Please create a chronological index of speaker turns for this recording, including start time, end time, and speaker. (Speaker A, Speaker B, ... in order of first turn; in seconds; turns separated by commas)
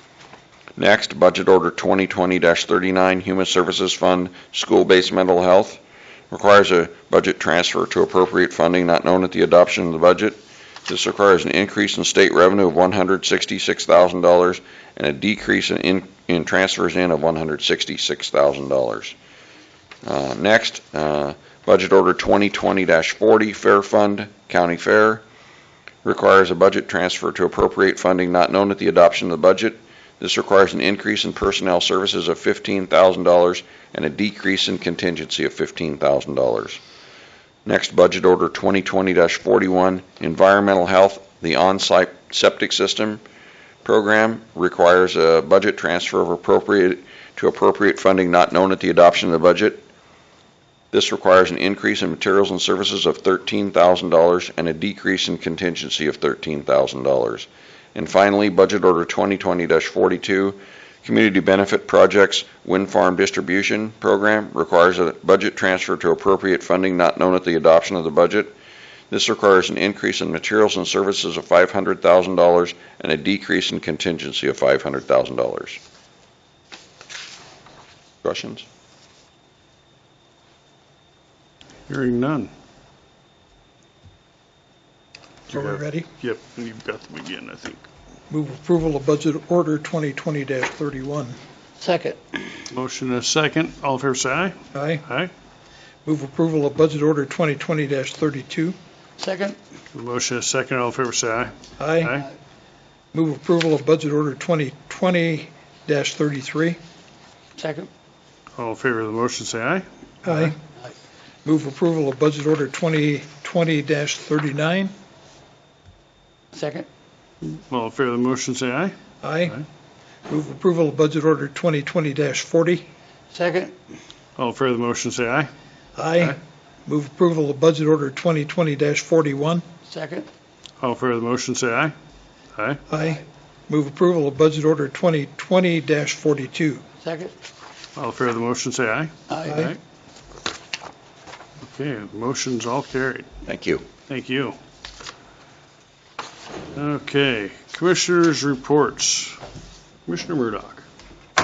Speaker A: 0.8-19.1, Speaker A: 20.0-25.2, Speaker A: 26.0-36.8, Speaker A: 37.6-43.2, Speaker A: 43.8-49.9, Speaker A: 50.9-68.5, Speaker A: 69.1-75.8, Speaker A: 78.2-78.7, Speaker B: 81.9-82.5, Speaker B: 85.5-87.8, Speaker C: 85.5-86.1, Speaker C: 88.3-91.4, Speaker D: 91.8-92.5, Speaker B: 92.7-94.5, Speaker C: 94.7-95.0, Speaker B: 95.0-95.3, Speaker C: 96.0-98.8, Speaker D: 99.2-99.6, Speaker B: 99.9-102.2, Speaker C: 101.8-102.2, Speaker C: 103.1-106.8, Speaker D: 107.5-107.9, Speaker B: 108.6-109.8, Speaker C: 110.2-110.5, Speaker C: 111.4-114.9, Speaker D: 116.5-116.9, Speaker B: 117.4-118.9, Speaker C: 119.2-119.6, Speaker C: 120.3-122.8, Speaker D: 123.3-123.8, Speaker B: 124.4-125.5, Speaker C: 126.0-129.6, Speaker D: 129.9-130.3, Speaker B: 130.8-131.9, Speaker B: 132.5-132.8, Speaker C: 132.9-136.8, Speaker D: 137.0-137.3, Speaker B: 137.9-139.8, Speaker D: 139.3-139.7, Speaker C: 139.4-139.7, Speaker B: 141.6-143.3, Speaker A: 143.4-143.8, Speaker B: 144.1-144.6, Speaker B: 146.7-149.4, Speaker B: 150.1-150.8